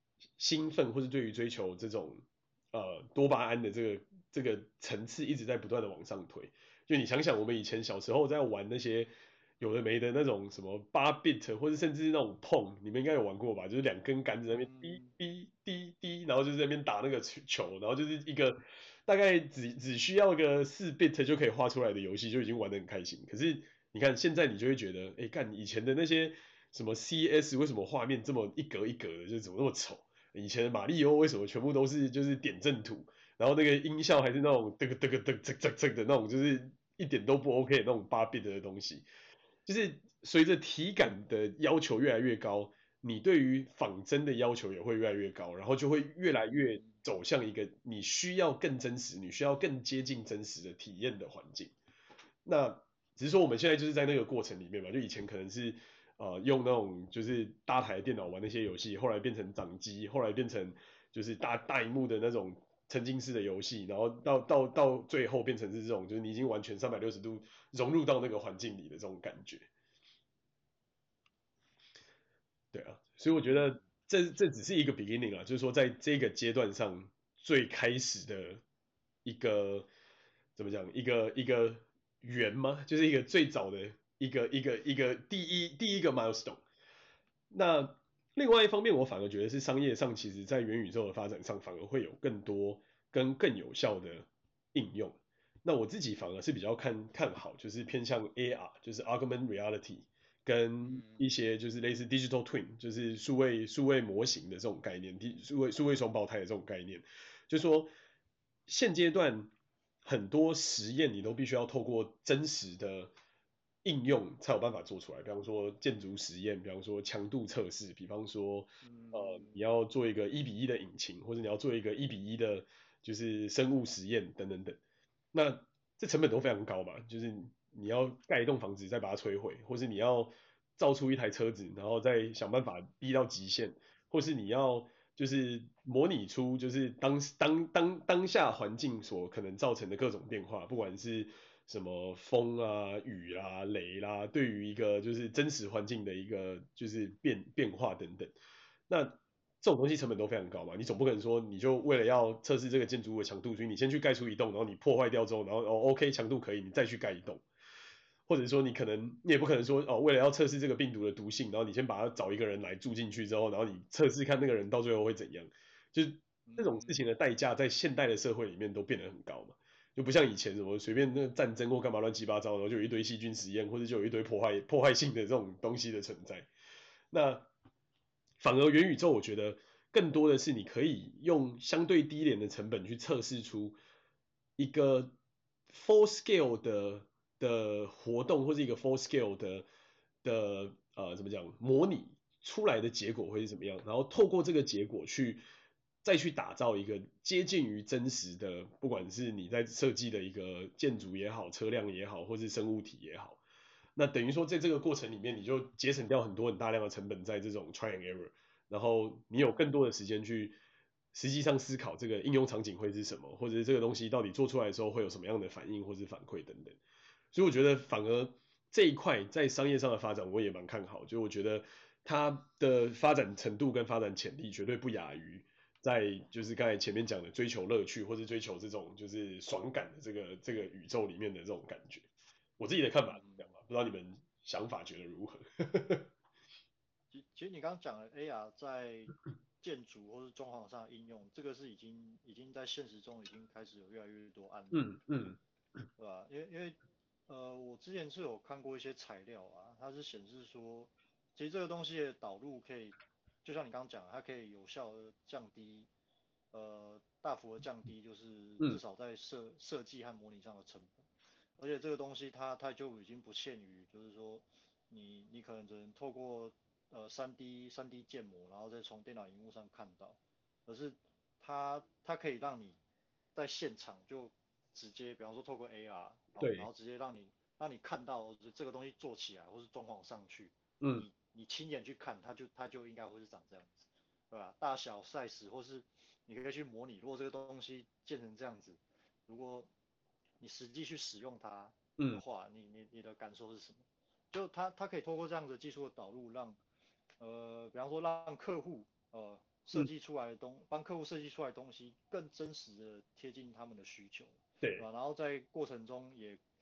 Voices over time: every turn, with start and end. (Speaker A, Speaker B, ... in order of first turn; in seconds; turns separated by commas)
Speaker A: 0.4-39.1, Speaker B: 14.5-15.1, Speaker A: 39.7-51.8, Speaker B: 46.5-47.0, Speaker A: 52.5-69.7, Speaker A: 72.7-78.6, Speaker B: 73.4-73.9, Speaker A: 79.2-79.9, Speaker A: 80.6-86.6, Speaker A: 87.5-107.9, Speaker B: 100.8-101.2, Speaker A: 108.7-109.5, Speaker A: 110.0-113.1, Speaker A: 113.8-124.8, Speaker B: 118.8-119.6, Speaker A: 125.3-148.3, Speaker A: 148.9-157.4, Speaker A: 158.3-176.5, Speaker B: 166.5-167.0, Speaker A: 177.1-177.5, Speaker A: 178.4-183.8, Speaker A: 184.6-185.2, Speaker A: 185.7-189.7, Speaker A: 190.2-195.4, Speaker A: 196.0-203.4, Speaker A: 204.0-210.6, Speaker B: 209.4-209.7, Speaker A: 211.1-216.8, Speaker A: 217.3-236.1, Speaker B: 233.1-233.6, Speaker B: 237.1-244.9, Speaker A: 244.7-245.4, Speaker B: 246.0-255.9, Speaker B: 256.5-261.1, Speaker B: 261.6-272.8, Speaker B: 273.4-289.7, Speaker A: 276.4-276.7, Speaker A: 280.8-281.1, Speaker B: 290.4-296.6, Speaker A: 292.0-292.2, Speaker B: 297.2-306.4, Speaker A: 304.6-304.9